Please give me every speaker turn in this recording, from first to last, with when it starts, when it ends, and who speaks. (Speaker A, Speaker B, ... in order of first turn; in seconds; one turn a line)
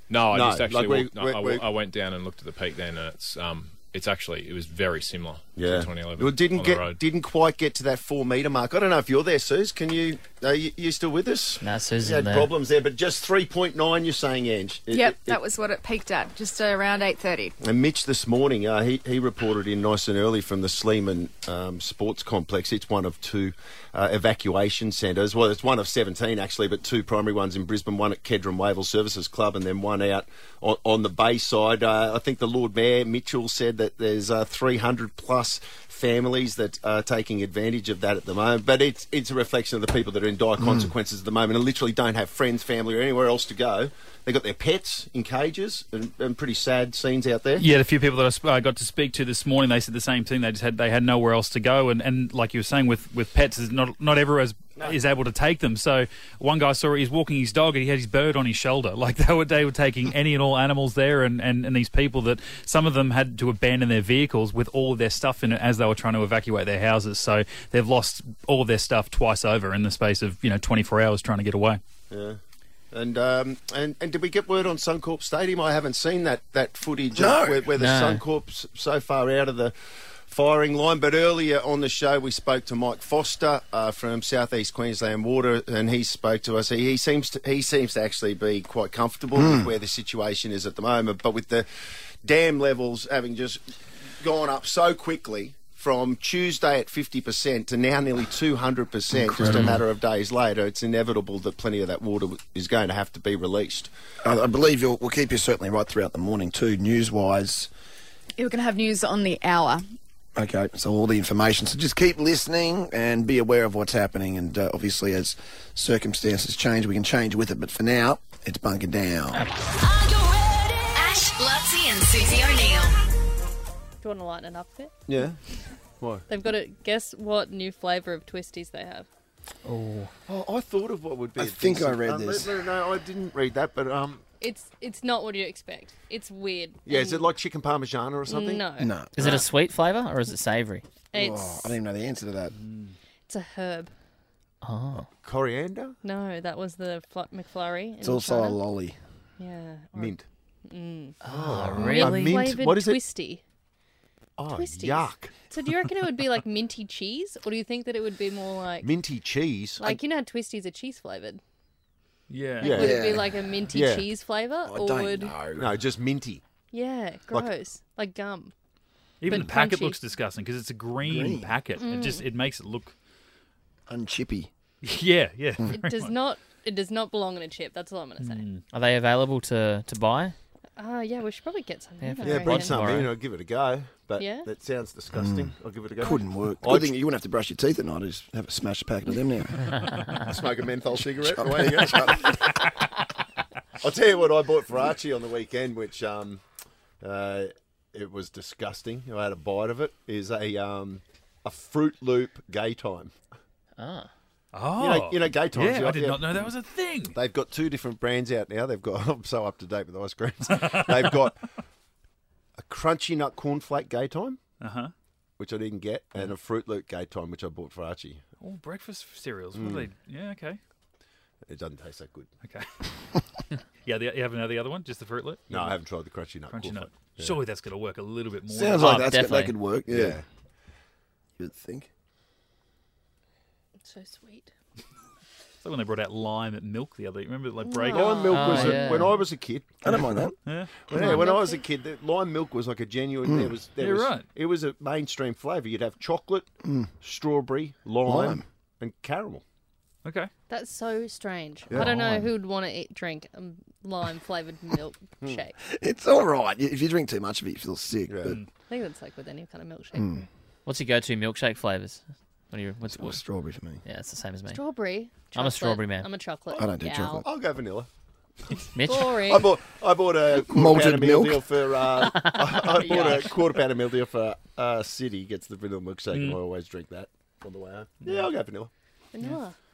Speaker A: 0.1-7.0
Speaker B: 0.3-1.6
Speaker B: 5.5-15.4
Speaker C: 11.6-12.5
Speaker D: 14.9-17.5
Speaker B: 17.6-47.6
Speaker E: 40.6-40.9
Speaker F: 47.6-71.8
Speaker B: 72.1-72.4
Speaker B: 72.9-79.7
Speaker E: 77.1-77.7
Speaker C: 77.8-78.2
Speaker B: 80.3-93.6
Speaker E: 89.4-89.7
Speaker B: 94.2-103.9
Speaker E: 99.1-99.8
Speaker E: 104.2-107.7
Speaker D: 108.4-109.8
Speaker E: 110.4-119.4
Speaker G: 119.7-123.0
Speaker H: 124.0-124.9
Speaker B: 125.1-125.4
Speaker B: 126.0-126.2
Speaker H: 126.3-129.1
Speaker C: 129.6-130.1
Speaker B: 130.3-134.2
Speaker E: 131.4-132.5
Speaker H: 134.4-137.3
Speaker B: 136.9-138.6
Speaker H: 138.3-139.5
Speaker E: 138.8-139.3
Speaker C: 139.1-140.9
Speaker H: 141.1-141.8
Speaker E: 141.1-142.5
Speaker F: 142.5-142.9
Speaker H: 143.3-143.9
Speaker C: 144.6-145.1
Speaker B: 145.2-145.9
Speaker H: 146.0-148.6
Speaker E: 148.0-149.0
Speaker H: 149.4-151.2
Speaker B: 149.9-150.2
Speaker C: 151.2-152.5
Speaker B: 151.3-153.0
Speaker H: 151.7-153.4
Speaker B: 154.4-155.3
Speaker H: 154.5-158.9
Speaker B: 158.8-160.0
Speaker H: 159.8-161.4
Speaker F: 162.3-162.8
Speaker H: 162.6-165.4
Speaker B: 162.6-164.0
Speaker E: 162.8-163.3
Speaker E: 164.6-165.7
Speaker B: 165.5-166.4
Speaker H: 166.7-168.5
Speaker F: 169.2-172.9
Speaker H: 169.3-170.0
Speaker E: 171.0-171.6
Speaker H: 171.8-172.2
Speaker E: 173.9-174.5
Speaker F: 174.8-176.1
Speaker H: 175.7-178.4
Speaker F: 178.2-178.6
Speaker C: 178.7-180.4
Speaker H: 180.8-183.0
Speaker C: 182.0-183.1
Speaker B: 182.2-187.0
Speaker H: 184.2-184.5
Speaker E: 185.1-190.0
Speaker B: 190.2-192.6
Speaker E: 191.0-192.4
Speaker B: 193.8-196.4
Speaker B: 197.0-203.1
Speaker C: 203.8-204.1
Speaker F: 204.5-207.2
Speaker B: 204.8-206.5
Speaker B: 207.1-211.5
Speaker B: 212.6-214.4
Speaker F: 214.6-214.9
Speaker B: 215.4-218.2
Speaker F: 218.4-220.6
Speaker B: 219.5-219.9
Speaker B: 221.4-222.3
Speaker F: 222.4-222.9
Speaker F: 223.8-225.7
Speaker B: 225.5-227.4
Speaker F: 226.5-229.1
Speaker E: 228.5-230.2
Speaker C: 228.8-229.6
Speaker B: 229.9-230.2
Speaker E: 231.4-231.9
Speaker H: 233.8-234.5
Speaker F: 235.6-238.6
Speaker H: 237.6-239.2
Speaker B: 237.9-240.3
Speaker C: 238.3-239.2
Speaker E: 239.8-240.4
Speaker F: 240.4-241.2
Speaker B: 240.9-246.5
Speaker E: 240.9-241.2
Speaker H: 241.0-241.7
Speaker E: 243.2-243.5
Speaker F: 243.8-244.2
Speaker E: 246.6-246.9
Speaker B: 247.0-249.4
Speaker E: 248.0-248.4
Speaker F: 250.0-250.3
Speaker H: 250.5-255.5
Speaker C: 251.8-252.3
Speaker E: 255.7-258.4
Speaker B: 258.1-258.4
Speaker H: 258.6-260.2
Speaker E: 259.9-260.2
Speaker C: 260.6-263.2
Speaker E: 262.9-263.8
Speaker C: 263.8-264.6
Speaker H: 264.5-267.2
Speaker C: 265.3-266.1
Speaker E: 266.5-267.2
Speaker B: 267.2-267.9
Speaker C: 268.7-269.1
Speaker H: 268.8-269.5
Speaker B: 269.2-278.7
Speaker E: 270.3-271.5
Speaker H: 272.1-273.3
Speaker F: 276.1-276.4
Speaker H: 279.1-279.6